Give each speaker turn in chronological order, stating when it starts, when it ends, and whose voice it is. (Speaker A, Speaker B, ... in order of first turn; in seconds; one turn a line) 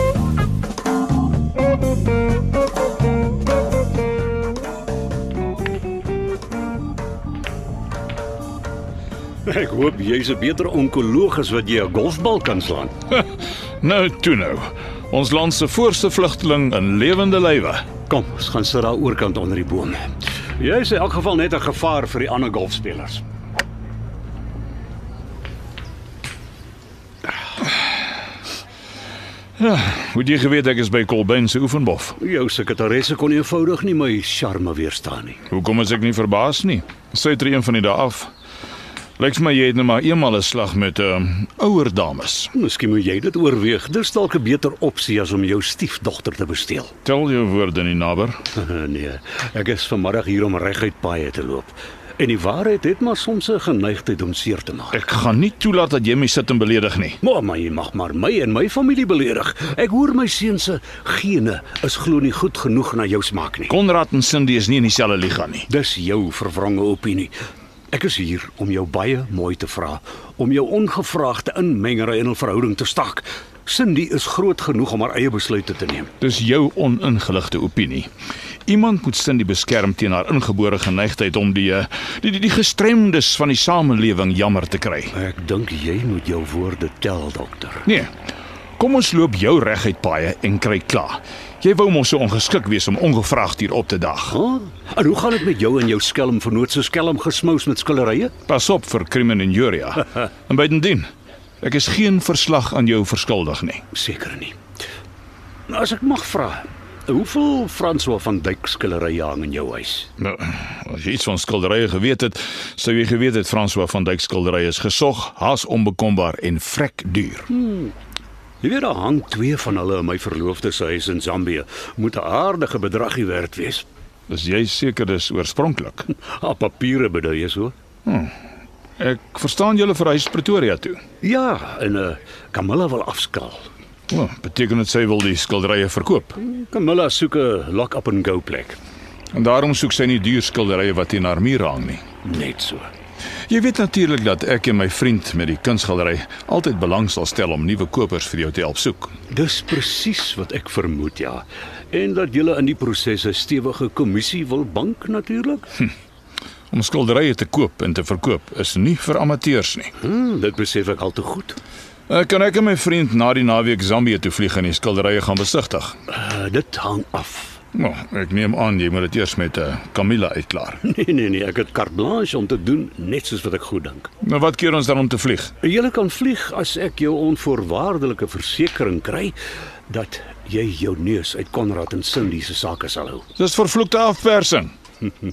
Speaker A: 9.5-12.9
Speaker B: 13.8-17.9
Speaker A: 18.1-20.1
Speaker A: 20.6-23.2
Speaker B: 29.6-32.2
Speaker A: 32.2-35.4
Speaker B: 35.5-38.3
Speaker B: 39.2-42.5
Speaker A: 42.5-46.9
Speaker B: 47.1-48.3
Speaker A: 48.6-55.0
Speaker B: 54.9-57.2
Speaker A: 57.2-63.7
Speaker B: 63.7-65.7
Speaker A: 65.7-67.3
Speaker A: 67.9-76.1
Speaker B: 76.2-78.1
Speaker B: 78.7-85.1
Speaker A: 85.1-87.8
Speaker B: 88.8-94.4
Speaker A: 94.3-98.3
Speaker B: 98.5-101.1
Speaker B: 101.6-103.8
Speaker A: 103.9-104.6
Speaker A: 105.7-110.1
Speaker B: 110.2-117.5
Speaker A: 117.5-117.9
Speaker A: 118.6-123.9
Speaker B: 124.3-126.0
Speaker A: 126.1-127.7
Speaker B: 128.1-128.3
Speaker B: 129.0-131.0
Speaker A: 131.2-133.6
Speaker B: 134.1-136.3
Speaker A: 136.4-138.8
Speaker B: 139.3-142.0
Speaker A: 142.2-142.9
Speaker B: 143.5-149.2
Speaker A: 149.3-155.7
Speaker B: 156.7-159.9
Speaker A: 160.0-161.6
Speaker B: 162.1-165.9
Speaker A: 166.1-167.6
Speaker B: 167.7-170.8
Speaker A: 170.8-174.1
Speaker B: 174.2-175.5
Speaker A: 175.6-179.3
Speaker A: 179.9-183.2
Speaker B: 183.4-184.7